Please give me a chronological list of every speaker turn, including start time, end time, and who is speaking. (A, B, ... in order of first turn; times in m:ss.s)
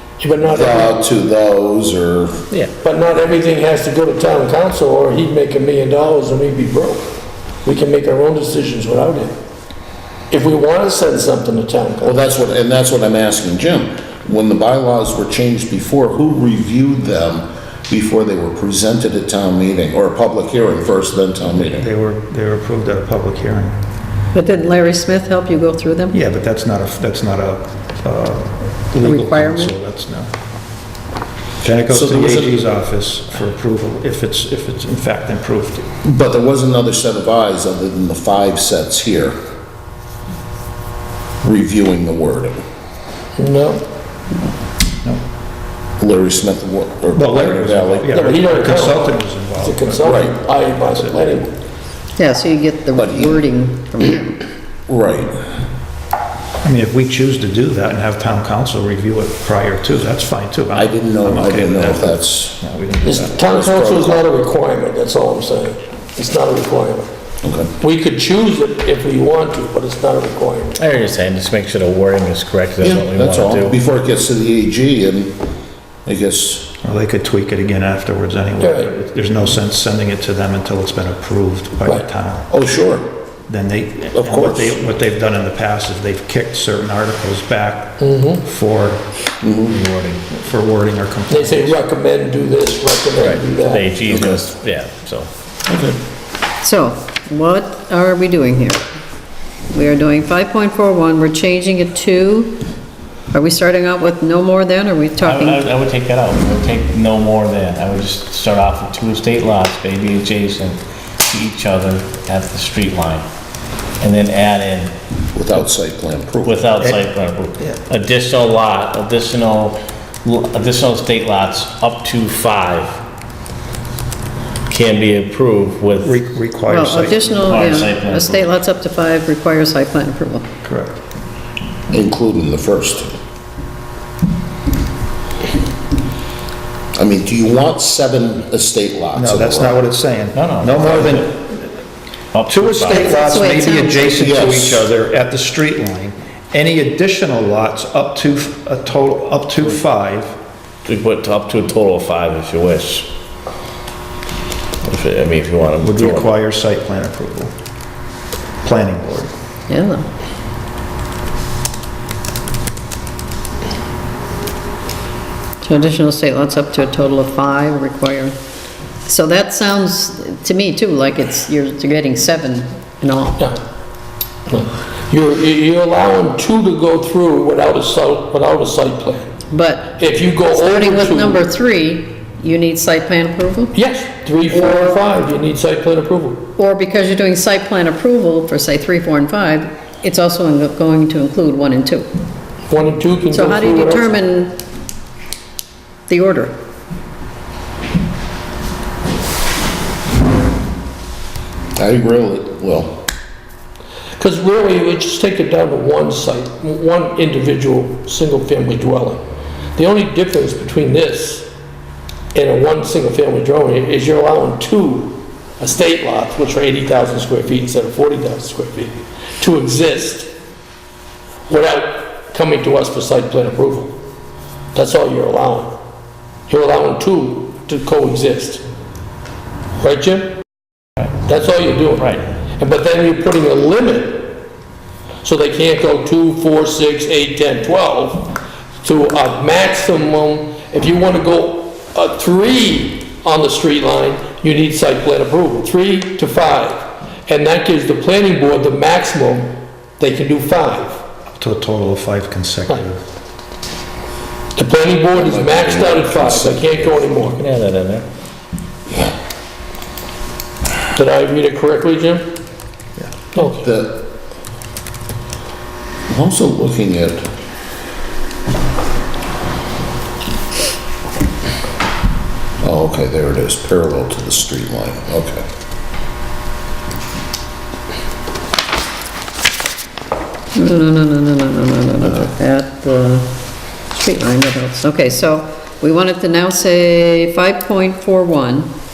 0:00.4-0:02.4 A
0:03.2-0:06.9 B
0:07.6-0:09.2 B
0:10.3-0:12.1 B
0:12.0-0:21.9 A
0:21.7-0:23.8 C
0:24.3-0:26.1 D
0:26.1-0:30.3 C
0:29.0-0:29.7 D
0:31.6-0:35.9 C
0:31.9-0:32.6 A
0:36.0-0:39.4 A
0:41.4-0:42.6 A
0:43.4-0:43.8 B
0:46.0-0:48.4 A
0:47.1-0:51.4 C
0:48.2-0:51.5 B
0:50.0-0:50.4 A
0:52.2-0:54.4 D
0:52.9-0:53.4 A
0:54.9-0:55.4 A
0:56.6-1:03.4 C
1:00.7-1:02.6 A
1:03.0-1:07.1 B
1:03.4-1:04.2 A
1:07.4-1:07.7 A
1:07.8-1:10.7 B
1:10.8-1:13.8 E
1:12.8-1:15.4 A
1:16.0-1:16.7 A
1:16.8-1:22.5 C
1:18.6-1:18.9 B
1:22.5-1:23.1 A
1:23.5-1:29.1 C
1:24.1-1:24.8 A
1:28.0-1:28.4 B
1:29.4-1:29.7 A
1:29.7-1:30.2 E
1:30.3-1:31.8 C
1:31.3-1:33.8 B
1:33.2-1:35.3 E
1:34.1-1:34.4 A
1:35.7-1:36.0 A
1:36.6-1:38.8 D
1:39.7-1:42.6 D
1:43.3-1:45.6 D
1:45.2-1:53.2 E
1:54.0-1:54.9 E
1:55.3-1:56.6 A
1:56.4-2:03.0 E
2:04.7-2:06.1 E
2:06.0-2:07.3 C
2:06.7-2:10.4 D
2:07.4-2:08.5 E
2:10.6-2:11.0 C
2:11.9-2:13.1 A
2:16.9-2:19.8 A
2:19.1-2:21.8 C
2:20.3-2:21.3 E
2:22.3-2:23.1 E
2:22.5-2:30.4 C
2:22.9-2:24.5 D
2:24.2-2:24.9 A
2:30.8-2:33.1 E
2:34.8-2:36.3 E
2:35.8-2:37.5 C
2:38.6-2:39.3 C
2:39.7-2:40.0 D
2:45.6-2:48.3 D
2:49.1-2:53.4 D
2:54.5-2:59.2 B
2:59.5-3:03.7 D
3:00.0-3:01.3 B
3:03.7-3:06.4 B
3:04.5-3:05.0 D
3:06.6-3:12.1 D
3:12.7-3:14.0 B
3:13.3-3:14.6 D
3:16.1-3:16.5 D
3:21.8-3:23.0 A
3:24.2-3:29.2 B
3:29.7-3:31.4 B
3:32.3-3:38.9 B
3:39.4-3:40.3 B
3:41.5-3:43.8 B
3:44.7-3:45.6 B
3:46.5-3:48.6 B
3:49.8-3:50.3 B
3:51.3-3:54.3 B
3:52.0-3:52.3 E
3:55.2-3:58.3 B
3:58.8-4:09.4 B
4:10.0-4:11.0 B
4:11.3-4:13.0 C
4:14.6-4:17.3 B
4:15.1-4:17.2 A
4:17.3-4:18.0 E
4:20.9-4:22.2 B
4:23.6-4:24.0 A
4:26.1-4:27.2 A
4:32.6-4:35.4 A
4:40.5-4:43.3 D
4:43.9-4:48.7 D